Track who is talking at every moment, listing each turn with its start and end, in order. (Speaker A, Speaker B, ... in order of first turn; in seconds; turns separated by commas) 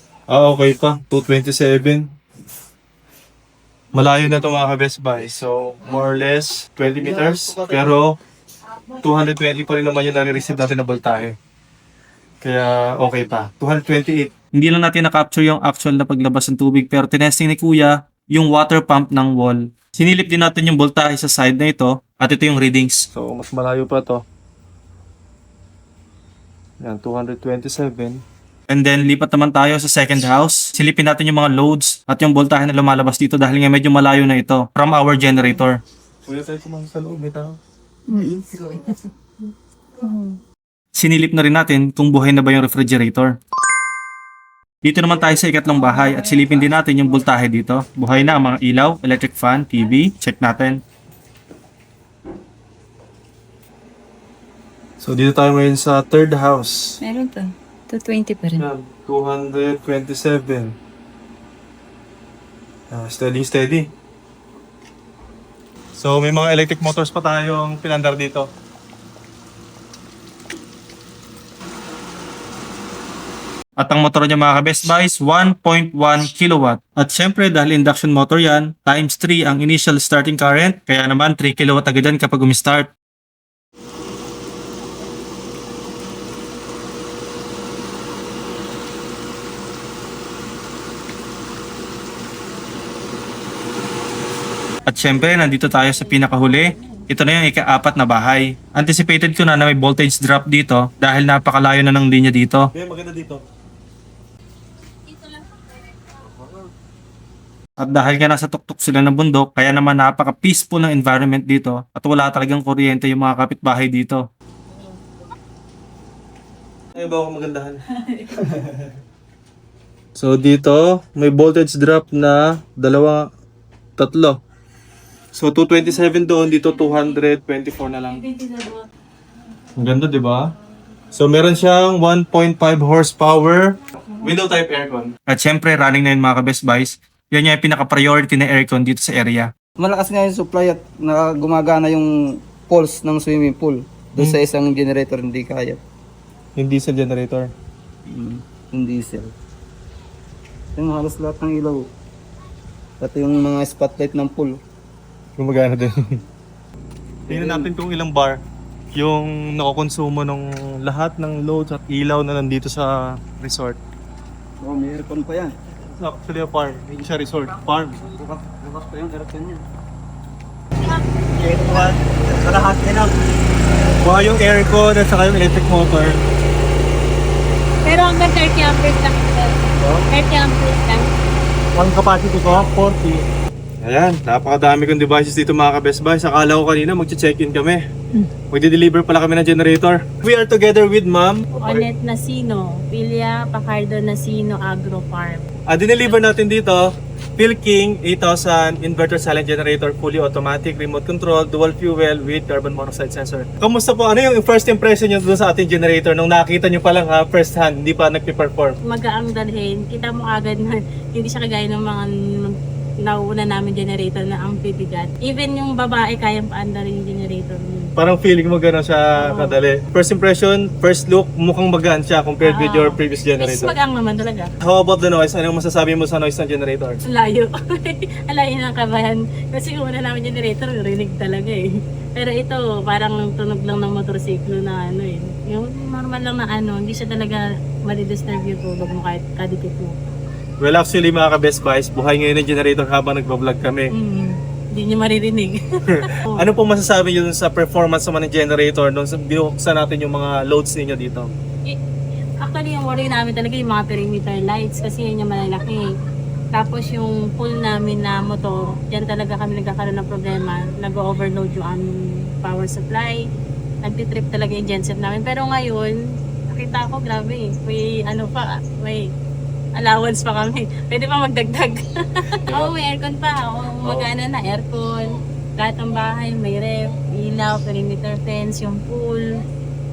Speaker A: 0.3-2.0, Speaker A: 3.9-8.2, Speaker B: 7.0-7.9, Speaker A: 9.0-11.3, Speaker A: 12.4-14.3, Speaker C: 14.5-23.0, Speaker A: 23.1-24.2, Speaker A: 26.8-28.2, Speaker C: 28.7-35.8, Speaker A: 36.2-37.6, Speaker D: 38.1-38.8, Speaker D: 40.0-40.4, Speaker C: 41.0-43.3, Speaker C: 44.8-50.8, Speaker A: 55.0-57.0, Speaker D: 57.0-58.7, Speaker A: 58.6-60.8, Speaker A: 62.9-63.9, Speaker A: 66.0-68.5, Speaker C: 73.8-82.9, Speaker C: 94.9-102.7, Speaker E: 95.8-97.1, Speaker A: 102.7-103.4, Speaker C: 107.8-114.2, Speaker A: 116.9-117.8, Speaker A: 118.5-118.9, Speaker A: 120.2-123.2, Speaker A: 124.0-124.4, Speaker A: 125.3-128.2, Speaker E: 126.7-127.1, Speaker E: 128.0-128.8, Speaker A: 129.8-130.5, Speaker A: 131.1-135.1, Speaker C: 135.3-139.5, Speaker B: 139.8-142.1, Speaker B: 142.7-145.8, Speaker A: 146.6-147.5, Speaker B: 148.1-149.3, Speaker B: 150.8-151.8, Speaker B: 153.0-154.6, Speaker A: 155.4-156.1, Speaker B: 157.3-157.7, Speaker A: 157.3-158.3, Speaker A: 158.9-163.8, Speaker B: 164.6-165.5, Speaker A: 166.0-168.0, Speaker B: 168.0-169.6, Speaker A: 171.3-173.1, Speaker E: 171.4-171.8, Speaker A: 174.0-176.2, Speaker E: 177.8-181.1, Speaker A: 179.8-180.0, Speaker A: 181.7-183.2, Speaker A: 183.8-187.8, Speaker A: 188.5-191.9, Speaker E: 191.6-195.5, Speaker A: 195.7-196.8, Speaker A: 197.4-208.8, Speaker E: 208.8-217.9, Speaker A: 218.0-223.7, Speaker E: 219.2-219.5, Speaker E: 222.4-224.5, Speaker A: 224.6-227.0, Speaker E: 227.1-239.9, Speaker A: 240.6-243.9, Speaker E: 243.9-246.4, Speaker A: 245.9-251.3, Speaker E: 252.4-255.8, Speaker E: 256.5-263.2, Speaker E: 263.8-266.0, Speaker E: 266.5-269.1, Speaker E: 269.8-271.8, Speaker A: 272.5-272.7, Speaker E: 272.5-279.3